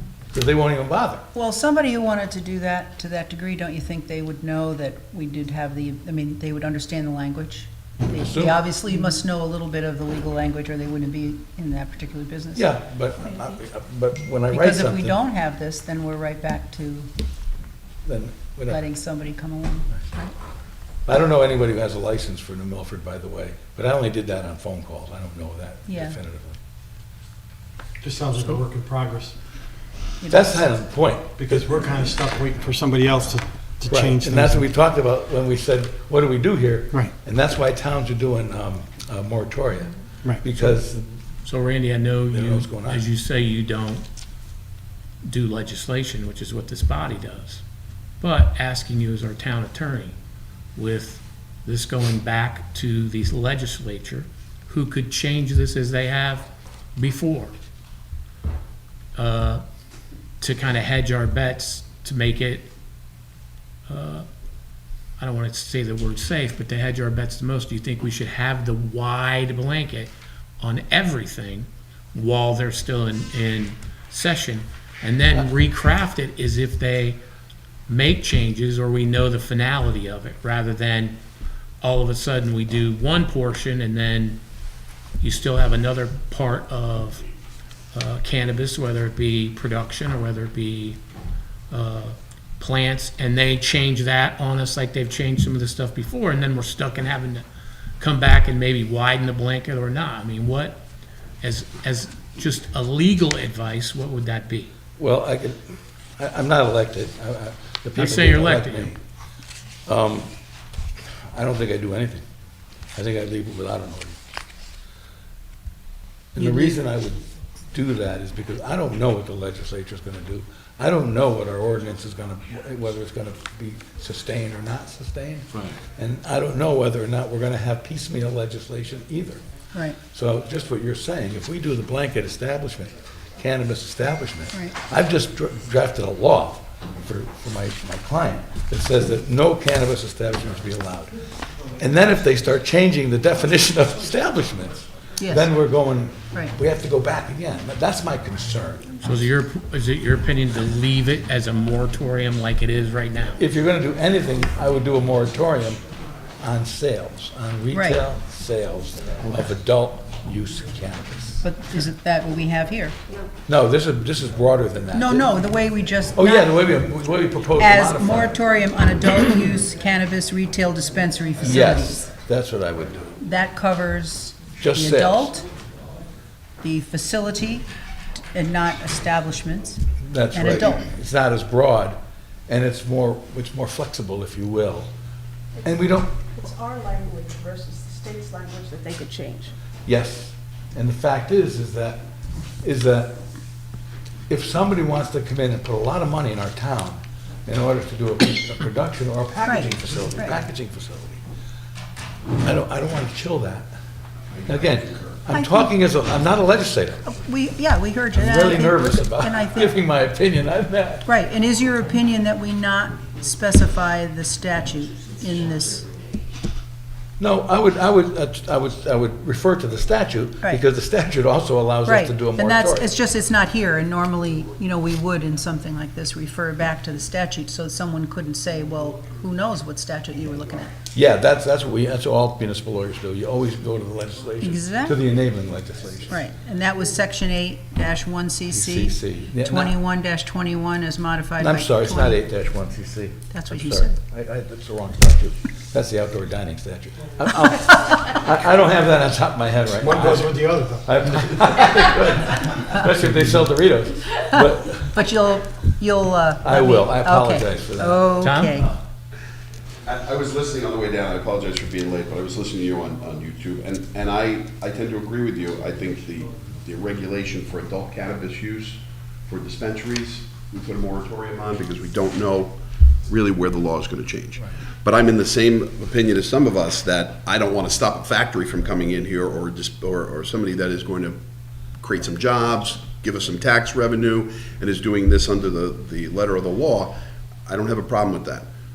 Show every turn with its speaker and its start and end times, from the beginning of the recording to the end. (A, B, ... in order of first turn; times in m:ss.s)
0:00.3-0:01.2 A
0:01.3-0:12.7 B
0:08.2-0:08.6 A
0:12.5-0:15.2 A
0:14.5-0:17.1 B
0:18.0-0:18.8 A
0:18.7-0:20.3 B
0:21.1-0:26.6 A
0:25.9-0:26.2 B
0:28.0-0:29.3 C
0:30.2-0:30.6 B
0:30.3-0:31.7 A
0:31.4-0:34.6 C
0:33.8-0:41.2 A
0:41.4-0:44.0 D
0:42.3-0:43.0 A
0:45.2-0:47.6 D
0:48.2-0:50.2 D
0:50.8-0:57.6 D
0:59.2-0:59.6 D
1:00.4-1:02.7 D
1:03.9-1:04.2 D
1:05.2-1:17.2 D
1:17.9-1:21.2 D
1:21.8-1:24.4 D
1:25.2-1:27.2 D
1:27.9-1:31.0 D
1:31.7-1:37.4 D
1:38.0-1:40.8 D
1:41.4-1:44.7 D
1:45.0-1:49.0 A
1:48.0-1:48.9 D
1:49.8-1:50.3 A
1:51.3-1:52.2 A
1:52.9-1:54.2 A
1:56.3-1:57.2 A
1:56.4-1:56.8 B
1:57.7-2:09.4 A
2:09.7-2:10.0 B
2:10.1-2:21.1 A
2:21.8-2:29.0 A
2:25.2-2:25.5 B
2:29.0-2:33.4 D
2:33.4-2:35.8 A
2:36.4-2:41.4 A
2:37.7-2:38.0 B
2:41.4-2:43.0 B
2:43.5-2:45.4 A
2:44.9-2:46.5 B
2:46.1-2:48.4 A
2:47.6-2:52.1 B
2:51.4-2:53.1 A
2:53.2-2:55.5 B
2:54.6-2:55.3 A
2:56.6-2:57.6 B
2:58.3-3:00.8 B
3:00.0-3:04.9 A
3:05.6-3:06.1 A
3:06.3-3:09.5 E
3:09.8-3:12.0 A
3:12.6-3:13.2 A
3:14.3-3:21.2 A
3:19.4-3:20.3 B
3:22.4-3:23.7 A
3:24.3-3:25.1 F
3:24.5-3:27.1 A
3:25.3-3:25.7 B
3:27.0-3:29.8 B
3:28.1-3:31.1 A
3:31.0-3:35.9 B
3:37.2-3:42.9 A
3:41.8-3:50.7 B
3:50.9-3:56.2 A
3:54.4-3:55.0 B
3:56.1-4:02.2 B
3:58.5-3:59.8 A
4:01.4-4:15.0 A
4:03.3-4:04.0 B
4:09.8-4:11.5 C
4:14.3-4:18.7 B
4:16.4-4:18.7 A
4:18.2-4:18.6 D
4:19.8-4:41.2 F
4:41.8-4:46.9 F
4:47.4-4:48.5 F